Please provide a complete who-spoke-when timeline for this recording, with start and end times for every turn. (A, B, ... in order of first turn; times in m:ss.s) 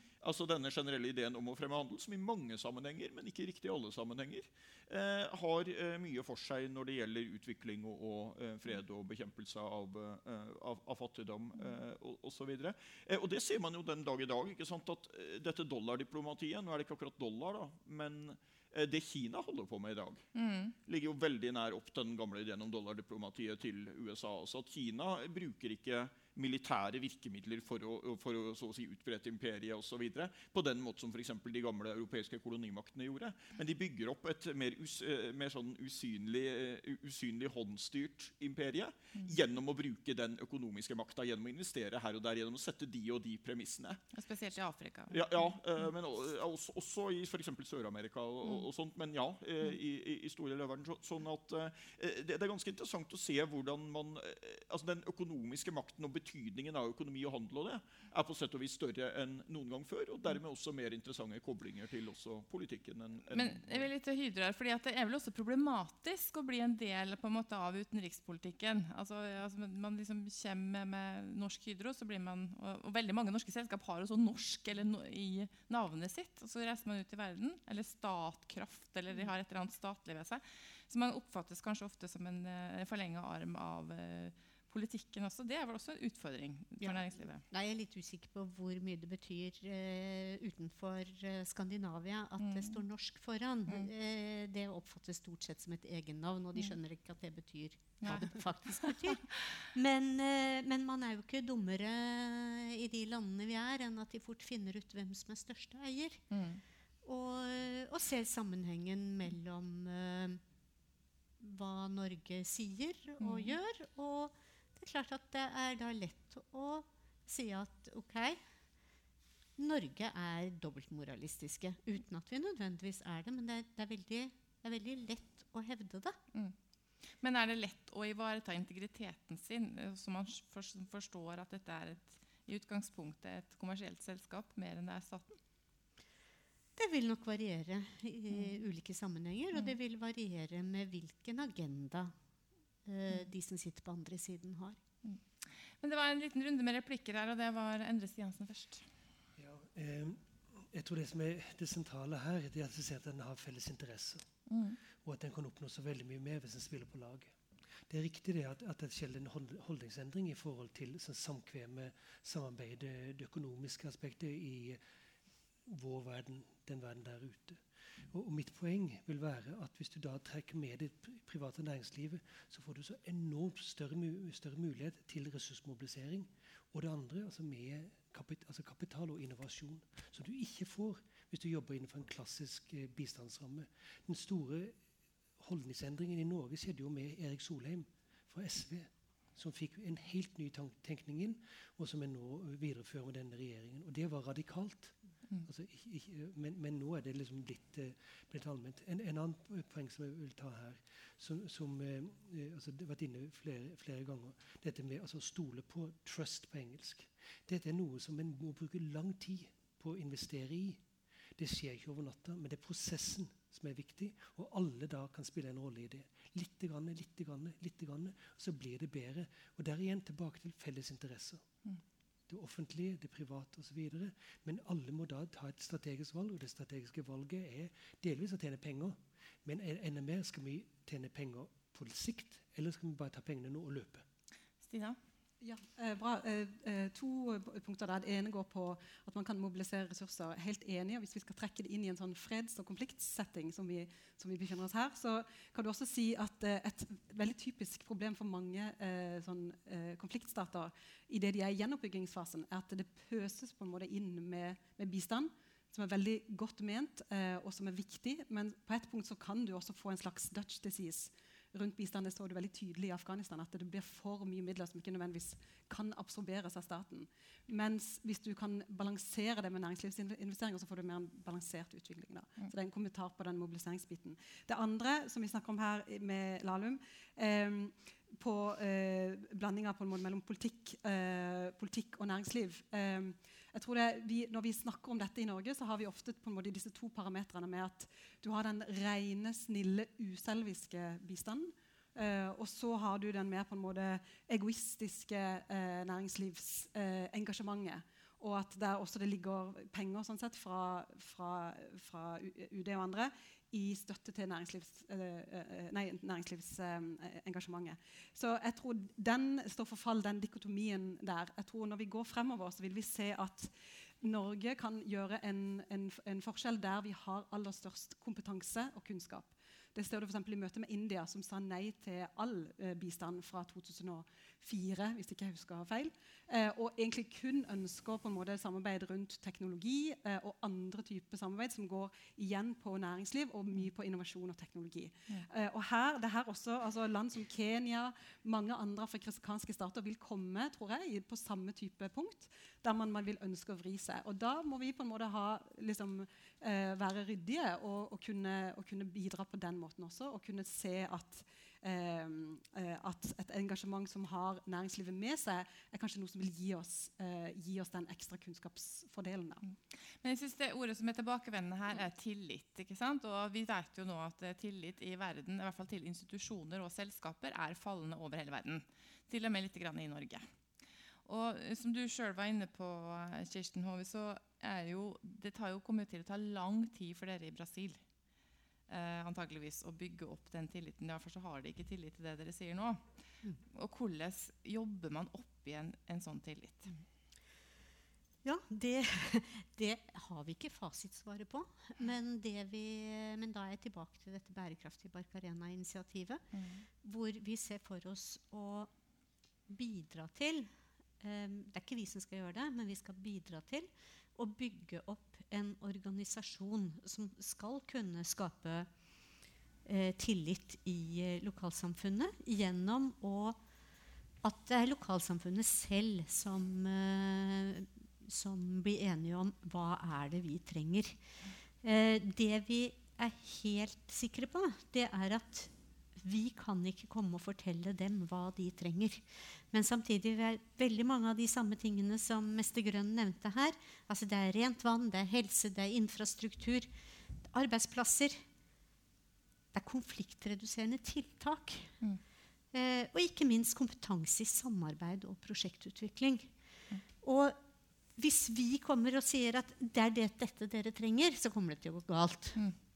0:00.2-0:20.2 A
0:20.3-0:20.7 B
0:20.8-0:44.0 A
0:44.1-0:45.5 B
0:45.1-1:03.9 A
1:03.3-1:27.4 B
1:26.8-1:46.2 C
1:32.4-1:32.8 B
1:38.0-1:39.2 B
1:46.3-1:46.6 B
1:47.0-1:50.4 C
1:51.4-1:58.4 C
1:53.2-1:53.6 B
1:59.6-2:06.2 C
2:07.2-2:15.4 B
2:16.8-2:22.1 C
2:18.3-2:18.6 B
2:22.8-2:24.8 C
2:25.8-2:28.8 B
2:29.4-2:34.2 D
2:34.5-2:34.8 B
2:35.0-2:37.3 D
2:37.9-2:44.8 D
2:45.6-3:04.7 D
3:05.4-3:30.8 D
3:31.4-3:41.4 D
3:42.3-3:54.0 D
3:54.6-3:55.0 B
3:55.4-5:59.4 E
5:59.4-6:10.2 B
6:11.0-6:17.8 B
6:18.7-6:22.8 B
6:23.5-6:26.7 B
6:28.2-6:36.2 C
6:36.3-6:36.6 B
6:36.8-6:38.7 C
6:39.5-6:48.7 C
6:49.6-6:53.4 C
6:54.2-7:01.0 C
7:01.6-7:16.7 C
7:17.3-7:18.2 C
7:19.5-7:21.7 C
7:22.5-7:26.3 C
7:27.0-7:27.4 C
7:28.0-7:32.4 C